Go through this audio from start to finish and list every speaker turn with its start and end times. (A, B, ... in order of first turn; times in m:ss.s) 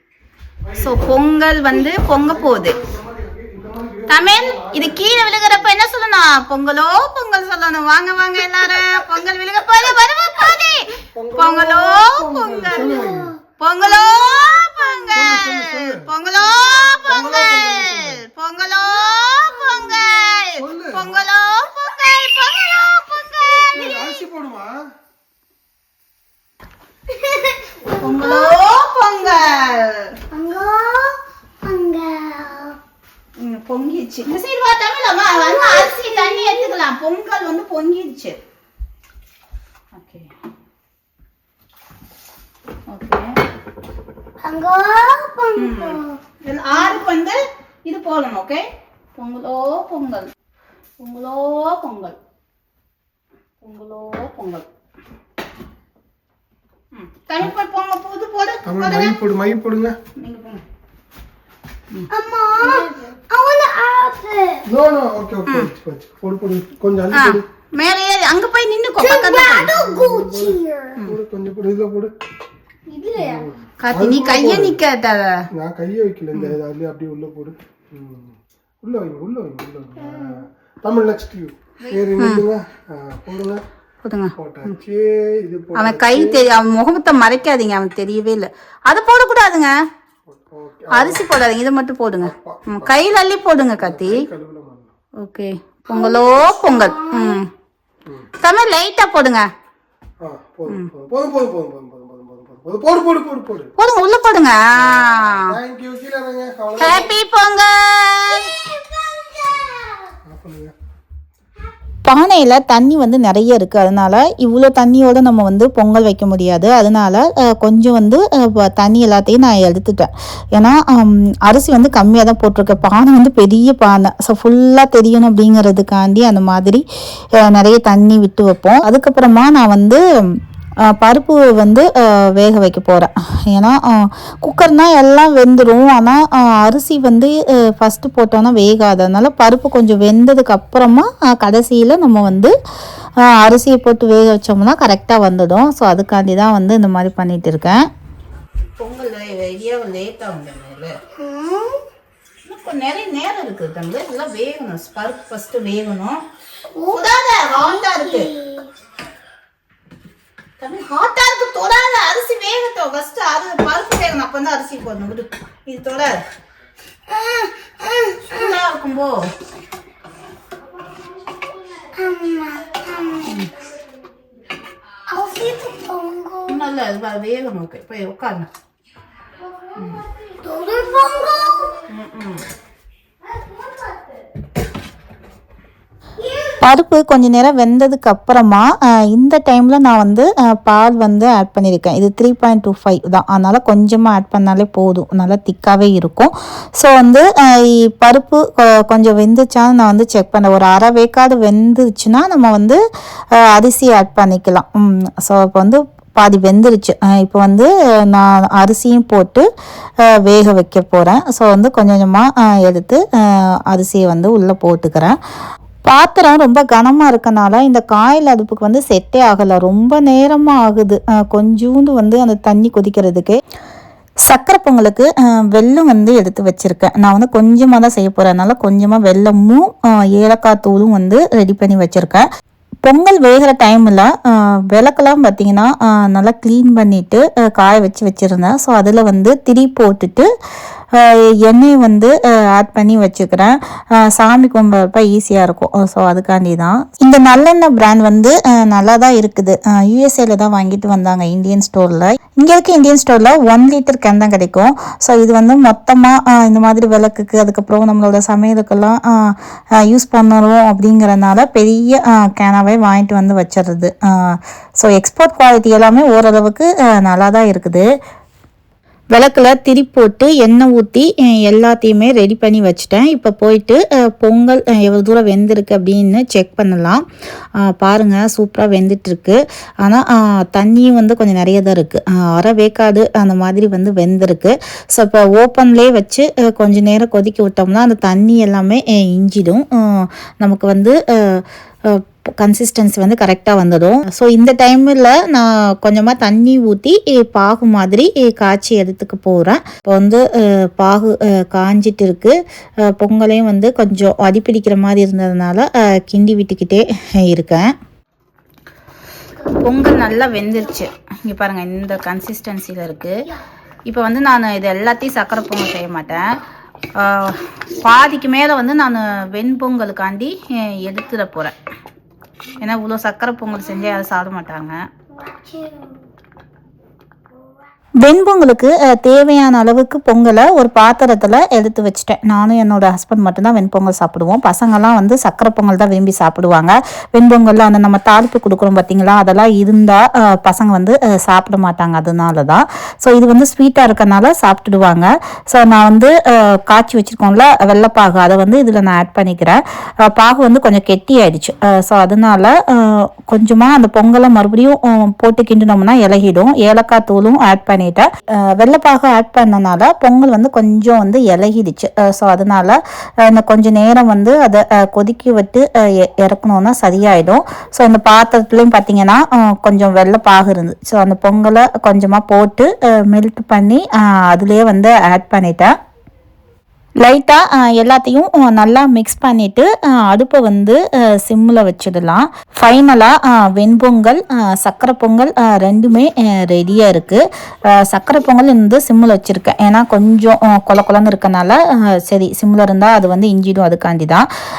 0:00.6-0:01.0 A
0:00.8-0:02.8 B
0:02.1-0:05.7 A
0:04.1-0:13.0 B
0:11.1-0:13.3 A
0:12.7-0:13.4 C
0:13.6-0:23.9 B
0:14.0-0:14.5 C
0:15.1-0:16.1 A
0:16.6-0:16.9 C
0:17.1-0:18.2 A
0:18.8-0:20.3 C
0:20.6-0:21.2 A
0:22.1-0:24.2 C
0:23.7-0:24.9 A
0:27.1-0:28.5 C
0:27.9-0:30.1 B
0:30.3-0:32.8 C
0:33.4-0:38.4 B
0:35.3-0:36.7 C
0:39.9-0:40.3 B
0:42.9-0:43.4 B
0:44.4-0:46.2 C
0:45.6-0:48.6 B
0:49.2-0:50.3 B
0:51.0-0:52.2 B
0:53.6-0:54.6 B
0:56.9-0:59.2 B
0:58.6-1:00.0 A
1:00.2-1:00.6 B
1:02.1-1:04.7 C
1:02.6-1:03.0 B
1:04.6-1:07.4 A
1:07.1-1:09.7 B
1:09.0-1:11.0 C
1:09.8-1:12.1 A
1:12.9-1:13.5 C
1:13.2-1:14.8 A
1:13.8-1:15.3 B
1:15.5-1:23.6 A
1:20.0-1:20.4 C
1:22.1-1:22.5 B
1:24.0-1:24.8 B
1:24.4-1:26.5 A
1:25.7-1:29.7 B
1:30.3-1:31.2 A
1:30.9-1:34.2 B
1:32.2-1:32.9 A
1:33.8-1:34.9 A
1:35.2-1:37.5 B
1:35.9-1:37.4 C
1:38.4-1:39.5 B
1:40.2-1:43.7 A
1:43.8-1:45.6 B
1:44.7-1:47.1 A
1:46.8-1:47.1 C
1:46.8-1:48.5 B
1:48.3-1:50.1 C
1:49.5-1:50.7 A
1:52.0-2:06.8 B
2:07.4-2:10.0 B
2:10.8-2:22.5 B
2:23.2-2:27.9 B
2:28.8-2:30.9 B
2:31.2-2:31.8 C
2:32.4-2:36.2 B
2:36.7-2:38.7 C
2:36.9-2:38.3 B
2:40.6-2:46.2 B
2:47.1-2:48.5 C
2:48.3-2:49.3 B
2:51.2-2:53.4 C
2:53.2-2:53.5 B
2:55.1-2:56.6 C
2:56.4-2:58.5 B
2:59.4-3:01.9 C
2:59.8-3:00.0 B
3:01.9-3:02.4 B
3:03.2-3:04.2 C
3:06.2-3:06.6 C
3:06.6-3:22.8 B
3:23.3-3:29.5 B
3:30.1-3:35.2 B
3:35.8-3:43.4 B
3:44.2-3:52.3 B
3:52.8-4:00.3 B
4:01.0-4:27.9 B
4:29.1-4:37.0 B
4:37.6-5:02.4 B
5:02.9-5:07.7 B
5:09.5-5:13.3 B
5:13.8-5:16.4 B
5:17.0-5:21.6 B
5:22.6-5:24.8 B
5:23.7-5:24.0 C
5:25.1-5:26.0 C
5:27.3-5:27.7 C
5:28.0-6:15.7 B
6:17.0-6:34.3 B